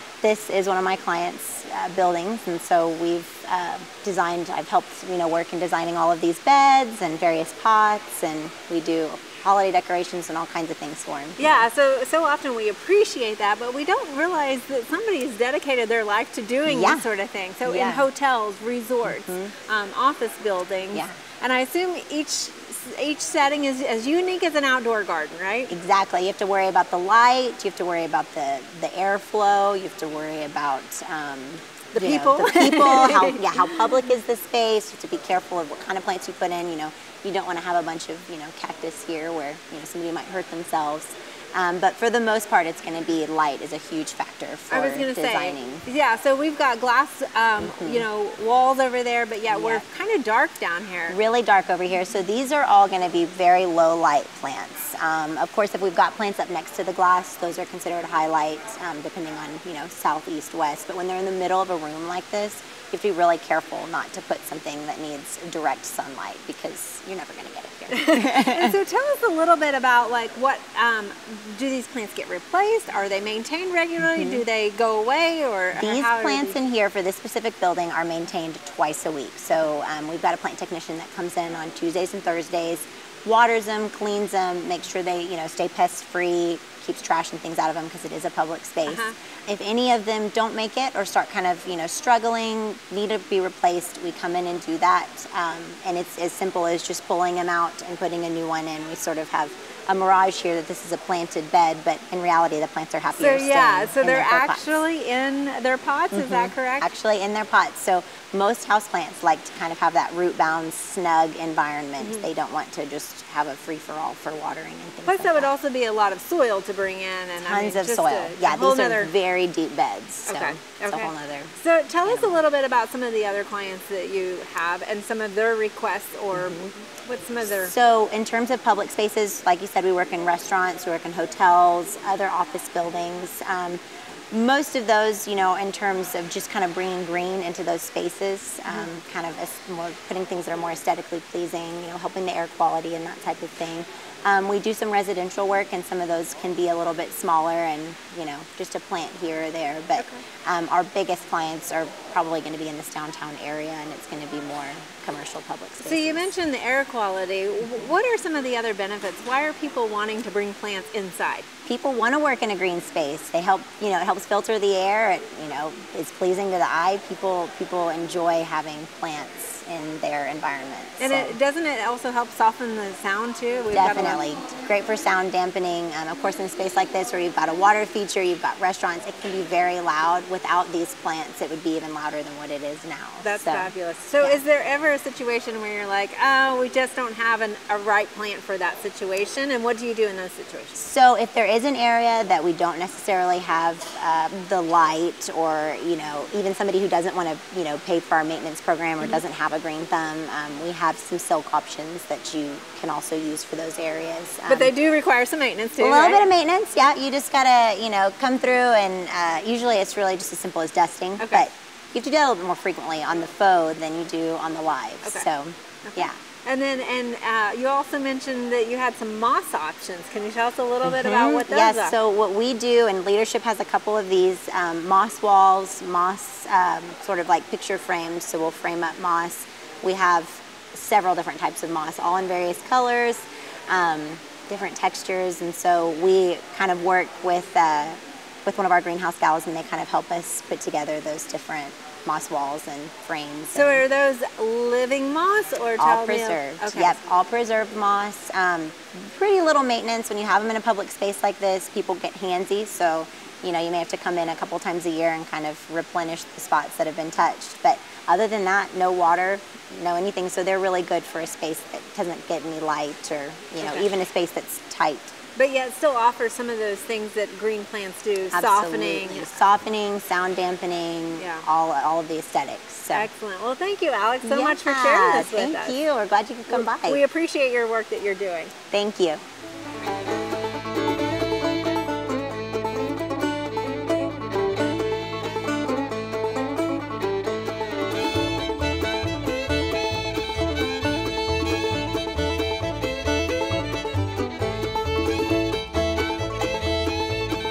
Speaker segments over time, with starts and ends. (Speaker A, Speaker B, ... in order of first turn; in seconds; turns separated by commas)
Speaker A: 0.2-11.7, Speaker B: 11.4-25.7, Speaker A: 16.7-17.1, Speaker A: 17.6-18.1, Speaker A: 19.1-19.5, Speaker A: 25.7-45.8, Speaker B: 31.9-33.5, Speaker B: 44.7-51.2, Speaker A: 47.6-48.1, Speaker A: 49.5-49.9, Speaker A: 51.1-68.8, Speaker B: 67.9-76.6, Speaker A: 74.2-74.4, Speaker A: 75.7-104.8, Speaker B: 88.9-89.2, Speaker B: 103.2-106.9, Speaker A: 106.1-115.5, Speaker B: 112.0-112.3, Speaker B: 115.1-119.1, Speaker A: 117.4-121.5, Speaker B: 120.3-127.7, Speaker A: 122.0-122.4, Speaker A: 126.3-126.7, Speaker A: 127.5-156.3, Speaker B: 155.8-161.5, Speaker A: 161.7-171.4, Speaker B: 171.0-174.2, Speaker A: 173.7-184.4, Speaker B: 183.2-190.8, Speaker A: 190.8-204.7, Speaker B: 204.5-206.2, Speaker A: 205.8-216.2, Speaker B: 211.2-211.5, Speaker B: 215.9-221.9, Speaker A: 220.8-243.8, Speaker B: 243.5-247.0, Speaker A: 245.8-265.1, Speaker B: 263.6-263.9, Speaker B: 265.4-269.3, Speaker A: 268.3-273.1, Speaker B: 271.2-271.4, Speaker B: 272.9-275.8, Speaker A: 274.2-277.0, Speaker B: 276.5-278.5, Speaker A: 278.7-279.2